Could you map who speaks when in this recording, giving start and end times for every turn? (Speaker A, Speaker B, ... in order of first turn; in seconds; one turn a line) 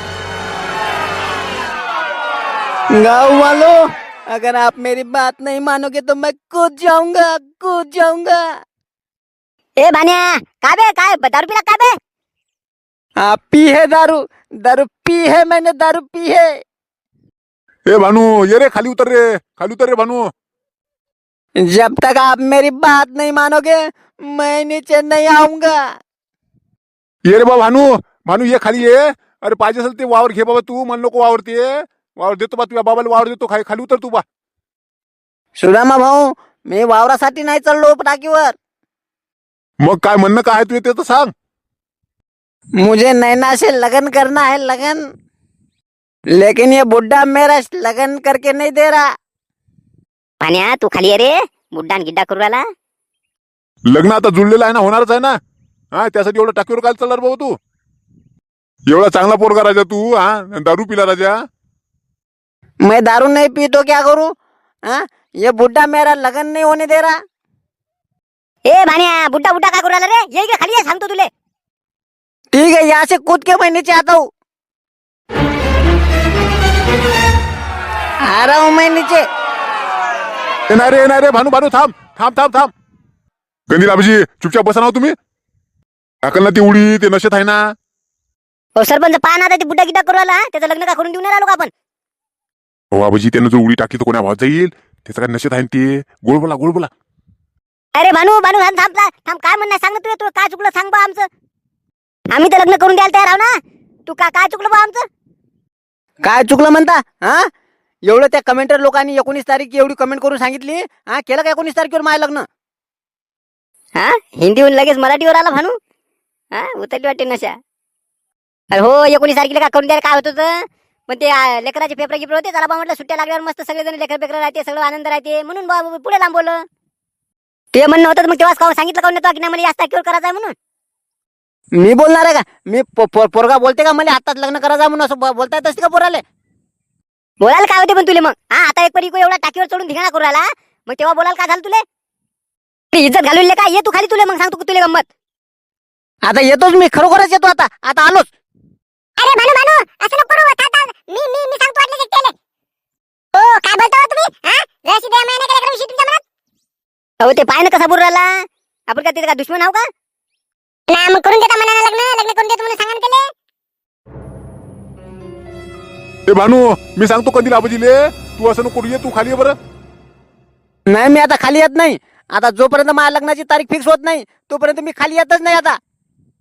Speaker A: 2.9-3.8
Speaker A: 4.3-8.4
Speaker B: 9.8-12.0
Speaker A: 13.2-16.6
Speaker C: 17.9-20.3
Speaker A: 21.6-25.9
Speaker C: 27.2-34.2
Speaker A: 35.6-38.5
Speaker C: 39.8-41.3
Speaker A: 42.8-45.0
Speaker A: 46.3-49.1
Speaker B: 50.4-52.6
Speaker C: 53.9-55.4
Speaker C: 55.9-57.5
Speaker C: 58.9-61.4
Speaker A: 62.8-64.3
Speaker A: 64.9-67.2
Speaker B: 68.7-71.3
Speaker A: 72.5-74.3
Speaker A: 78.2-79.2
Speaker C: 80.7-82.7
Speaker C: 83.7-85.1
Speaker C: 86.2-87.6
Speaker B: 88.8-91.7
Speaker C: 92.9-96.9
Speaker B: 97.9-101.3
Speaker B: 102.3-103.5
Speaker B: 104.1-105.0
Speaker A: 106.2-107.5
Speaker A: 108.0-112.5
Speaker B: 114.0-115.8
Speaker B: 116.5-117.6
Speaker B: 118.7-126.6
Speaker B: 127.7-130.5
Speaker A: 131.8-136.2
Speaker B: 137.4-141.8
Speaker B: 142.9-145.1
Speaker A: 146.2-148.3
Speaker D: 149.2-152.3
Speaker D: 153.3-156.2
Speaker B: 157.2-159.8
Speaker D: 160.9-163.2
Speaker C: 166.3-169.6
Speaker A: 170.9-175.8